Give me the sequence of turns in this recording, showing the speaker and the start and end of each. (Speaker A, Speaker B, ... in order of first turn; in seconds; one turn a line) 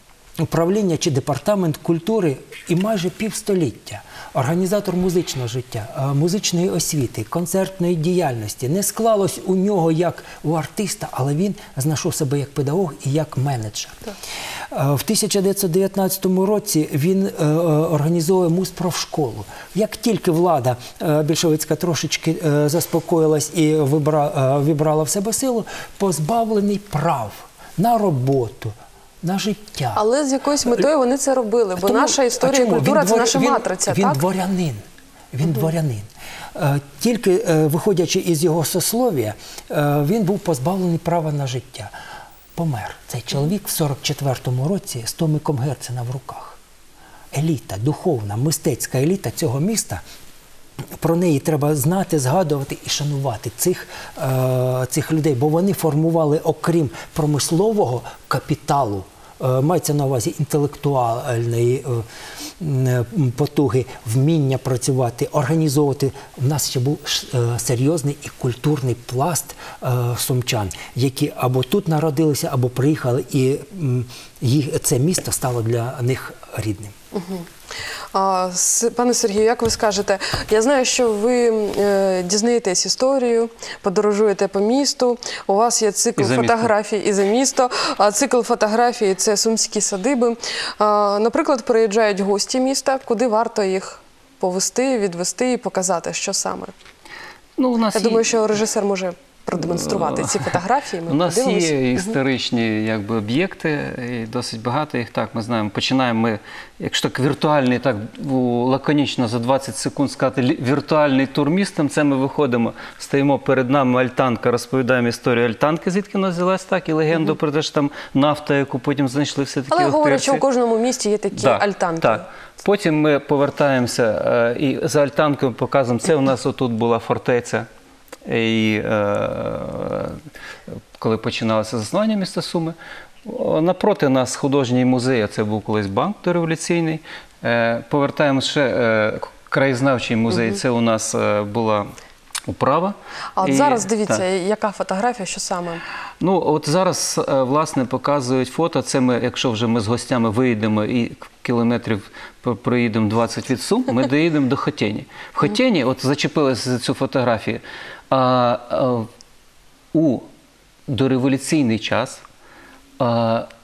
Speaker A: 0.4-14.1
Speaker A: 14.7-30.0
Speaker B: 30.0-34.2
Speaker A: 31.8-41.9
Speaker A: 42.6-46.6
Speaker A: 47.3-50.0
Speaker A: 51.0-62.0
Speaker A: 62.6-76.9
Speaker B: 77.1-77.5
Speaker B: 78.1-96.7
Speaker C: 86.2-86.7
Speaker C: 97.6-98.4
Speaker B: 97.9-102.2
Speaker C: 99.6-120.4
Speaker B: 119.7-122.3
Speaker C: 121.3-127.7
Speaker C: 128.2-130.2
Speaker C: 131.0-141.9
Speaker B: 140.3-140.6
Speaker C: 142.5-144.2
Speaker B: 143.4-145.8
Speaker C: 146.2-159.1
Speaker C: 159.9-160.3
Speaker C: 160.9-162.2
Speaker C: 163.0-163.5